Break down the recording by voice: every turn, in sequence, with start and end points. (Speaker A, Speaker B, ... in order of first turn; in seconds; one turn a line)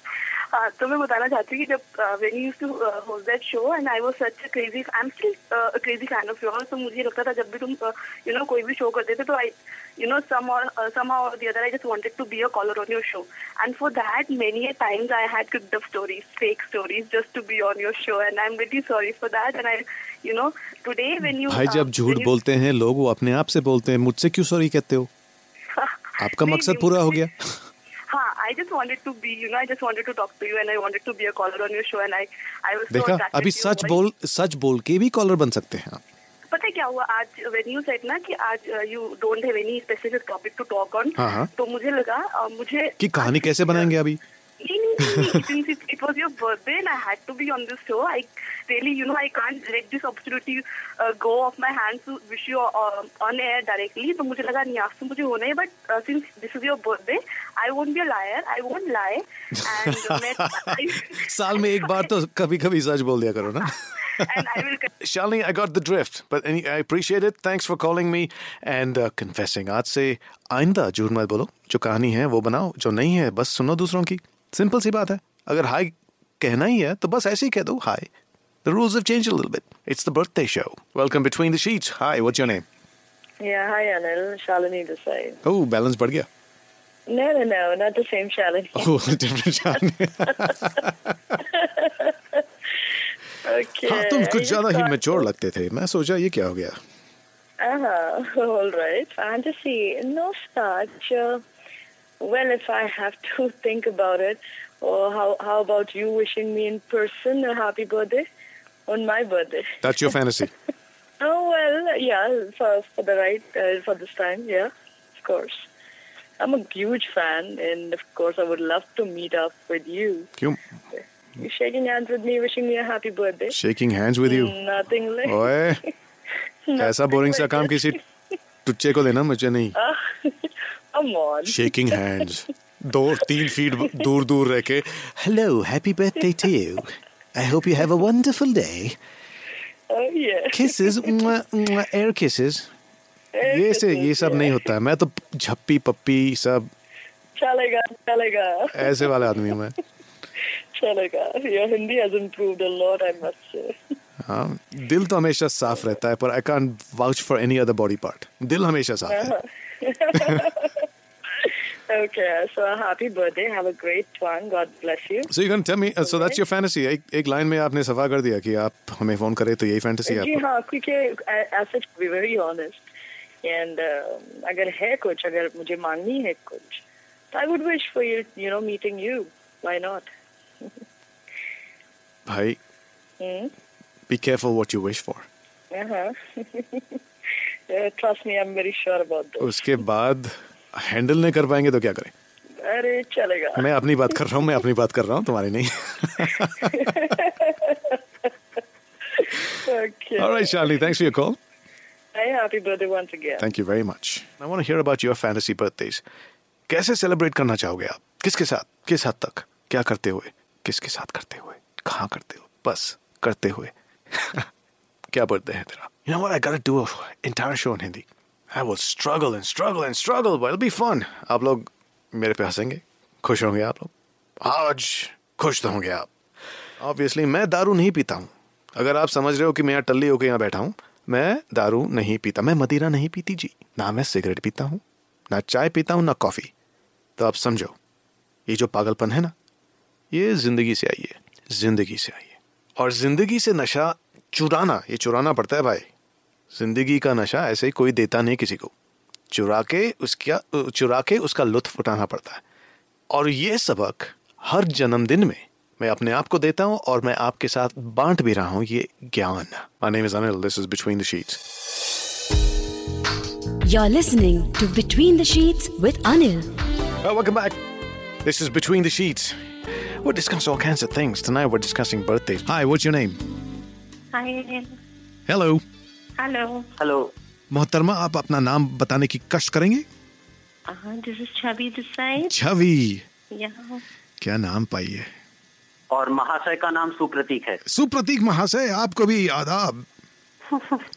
Speaker A: 0.5-22.3
Speaker B: 21.4-25.1
Speaker A: 25.8-27.3
Speaker B: 26.2-27.6
Speaker A: 28.1-34.0
Speaker B: 32.9-36.0
Speaker A: 36.5-43.9
Speaker B: 41.2-41.5
Speaker B: 43.0-44.2
Speaker A: 44.6-62.1
Speaker B: 45.0-45.4
Speaker B: 59.7-64.4
Speaker A: 63.7-64.9
Speaker B: 65.0-78.1
Speaker B: 78.7-82.7
Speaker C: 83.4-85.4
Speaker B: 85.4-86.3
Speaker C: 87.1-89.1
Speaker B: 88.8-91.1
Speaker C: 90.3-90.5
Speaker C: 91.3-92.4
Speaker C: 93.5-95.2
Speaker B: 93.9-96.8
Speaker C: 97.6-101.4
Speaker C: 102.2-108.2
Speaker C: 108.9-110.2
Speaker B: 109.8-110.5
Speaker C: 111.2-115.7
Speaker C: 116.4-120.3
Speaker C: 120.9-123.6
Speaker B: 123.5-124.6
Speaker C: 124.2-125.5
Speaker B: 125.2-125.8
Speaker C: 126.7-127.9
Speaker B: 126.8-128.0
Speaker B: 128.7-129.8
Speaker C: 129.8-131.8
Speaker B: 131.4-139.0
Speaker C: 139.9-141.3
Speaker B: 140.5-142.7
Speaker C: 143.4-144.6
Speaker B: 143.4-146.7
Speaker C: 147.4-149.4
Speaker B: 148.7-149.8
Speaker C: 150.8-153.9
Speaker B: 154.2-159.3
Speaker C: 159.1-160.9
Speaker B: 160.2-160.4
Speaker C: 161.4-165.3
Speaker B: 165.3-170.4
Speaker C: 166.0-166.4
Speaker C: 170.1-172.8
Speaker C: 173.4-180.1
Speaker B: 182.3-182.6
Speaker C: 183.2-183.5
Speaker B: 184.1-185.3
Speaker C: 185.7-187.0
Speaker C: 187.7-189.6
Speaker B: 189.4-192.1
Speaker C: 192.6-193.7
Speaker B: 193.6-196.9
Speaker C: 196.7-198.0
Speaker C: 199.2-201.0
Speaker B: 200.2-201.4
Speaker C: 202.1-203.5
Speaker B: 203.4-206.0
Speaker B: 206.7-214.5
Speaker B: 215.1-226.1
Speaker B: 226.8-236.5
Speaker B: 237.2-237.8
Speaker B: 238.5-239.3
Speaker B: 240.1-245.9
Speaker B: 246.5-248.7
Speaker B: 249.3-252.4
Speaker B: 253.1-261.4
Speaker D: 263.6-266.5
Speaker B: 267.0-267.6
Speaker B: 268.2-269.5
Speaker B: 270.0-273.2
Speaker E: 274.1-274.8
Speaker B: 275.3-275.6
Speaker E: 276.2-276.7
Speaker F: 276.8-277.1
Speaker B: 277.5-279.9
Speaker E: 280.7-282.3
Speaker B: 282.2-283.0
Speaker E: 283.3-283.8
Speaker B: 284.2-285.1
Speaker F: 285.9-287.6
Speaker B: 287.6-289.9